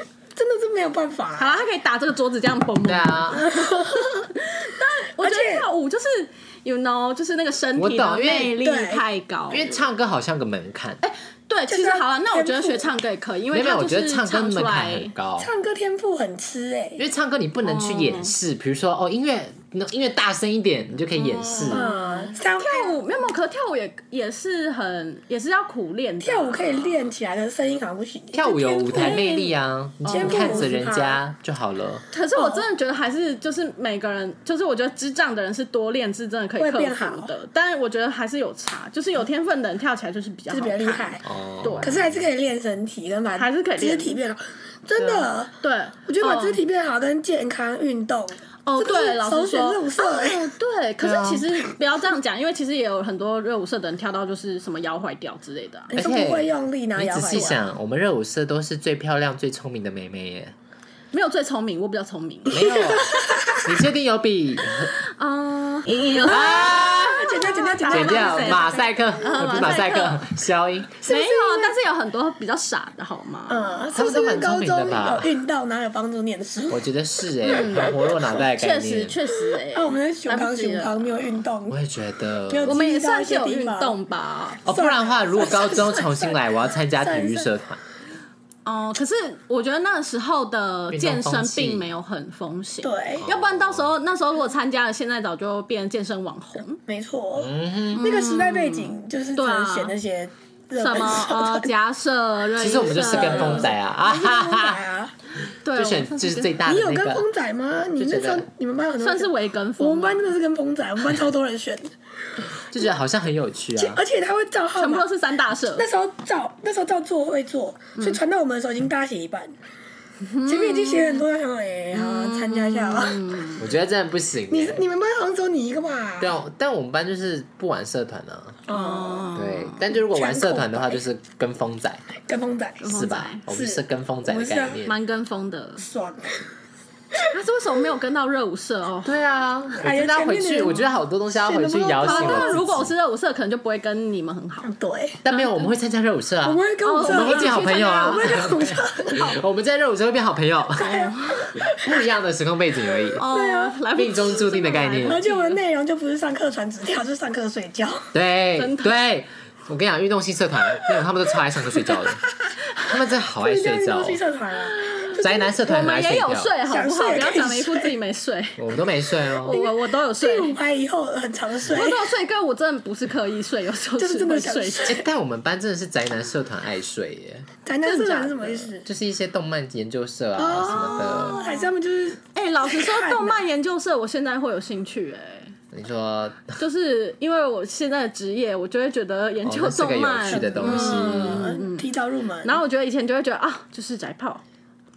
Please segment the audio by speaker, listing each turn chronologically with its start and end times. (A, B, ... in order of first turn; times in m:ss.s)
0:00.3-0:01.6 A
0:01.4-0:09.8 B
0:02.8-0:03.4 C
0:03.3-0:04.3 A
0:05.2-0:05.7 A
0:07.8-0:08.5 C
0:08.6-0:09.0 A
0:09.5-0:11.0 C
0:11.0-0:15.1 B
0:11.7-0:12.9 A
0:13.5-0:15.5 C
0:15.4-0:17.0 A
0:17.0-0:21.8 C
0:17.6-0:18.3 B
0:21.1-0:27.0 B
0:21.7-0:23.0 A
0:26.2-0:29.3 A
0:28.3-0:32.0 C
0:28.8-0:29.5 B
0:30.0-0:30.7 B
0:30.1-0:31.2 A
0:32.1-0:42.0 B
0:32.3-0:32.7 A
0:36.6-0:37.3 A
0:40.5-0:41.2 A
0:41.2-0:42.2 C
0:41.8-0:45.5 A
0:43.3-0:44.2 B
0:45.0-0:45.2 C
0:45.6-0:46.6 B
0:46.1-0:50.5 A
0:48.6-0:55.9 B
0:51.0-0:51.5 C
0:55.9-1:00.5 C
0:55.9-0:57.6 A
0:57.3-0:57.6 B
1:01.1-1:02.7 B
1:02.5-1:04.9 C
1:02.5-1:03.8 A
1:05.0-1:08.7 B
1:06.1-1:09.7 A
1:06.2-1:07.3 C
1:07.9-1:11.0 C
1:09.2-1:10.3 B
1:11.0-1:11.7 A
1:11.0-1:13.9 B
1:13.5-1:16.8 A
1:13.9-1:15.3 C
1:16.7-1:19.2 C
1:17.4-1:21.3 B
1:17.4-1:18.1 A
1:19.3-1:21.8 A
1:21.7-1:22.8 C
1:22.5-1:24.0 A
1:22.6-1:24.6 B
1:24.6-1:26.4 A
1:24.6-1:27.8 C
1:27.0-1:27.5 A
1:28.6-1:36.8 B
1:30.9-1:31.9 C
1:32.8-1:33.2 A
1:33.2-1:33.9 C
1:36.9-1:41.7 A
1:37.4-1:38.1 C
1:37.9-1:39.9 B
1:40.8-1:43.7 B
1:42.6-1:44.8 C
1:42.7-1:45.1 A
1:45.6-1:46.5 B
1:45.7-1:47.2 C
1:46.6-1:51.9 A
1:48.0-1:48.5 C
1:49.0-1:50.3 B
1:52.7-1:54.0 C
1:53.8-1:55.1 A
1:54.8-1:55.9 B
1:55.7-1:59.5 A
2:00.2-2:01.2 B
2:00.4-2:03.5 A
2:01.9-2:03.6 B
2:03.6-2:04.8 C
2:04.5-2:06.4 A
2:06.2-2:08.6 C
2:08.7-2:09.3 A
2:08.7-2:09.8 B
2:09.3-2:12.0 C
2:09.9-2:11.0 A
2:12.2-2:12.9 A
2:12.8-2:13.4 B
2:12.8-2:14.9 C
2:13.5-2:14.8 A
2:14.8-2:15.8 B
2:15.8-2:16.5 A
2:17.3-2:19.2 B
2:19.0-2:22.9 C
2:19.8-2:22.6 A
2:22.0-2:24.7 B
2:24.6-2:25.2 A
2:25.2-2:30.9 C
2:25.3-2:25.7 B
2:26.4-2:29.4 A
2:26.8-2:28.5 B
2:30.8-2:31.5 B
2:30.8-2:32.0 A
2:31.6-2:33.2 C
2:33.2-2:35.6 B
2:33.2-2:33.8 A
2:33.9-2:35.2 C
2:35.0-2:38.1 A
2:38.1-2:42.2 C
2:38.6-2:38.9 B
2:41.8-2:42.5 A
2:42.8-2:44.2 C
2:43.4-2:45.5 A
2:44.7-2:48.7 B
2:45.2-2:46.5 C
2:46.6-2:47.9 A
2:48.6-2:49.6 C
2:49.3-2:50.6 B
2:49.4-2:52.1 A
2:51.7-2:55.0 B
2:54.0-2:55.0 A
2:54.8-2:57.5 C
2:57.6-2:58.8 A
2:57.8-2:58.7 B
2:58.8-3:01.4 C
3:00.4-3:03.4 A
3:00.9-3:01.7 B
3:02.3-3:05.5 B
3:05.7-3:06.6 C
3:06.6-3:14.4 B
3:09.4-3:11.5 C
3:10.3-3:12.6 A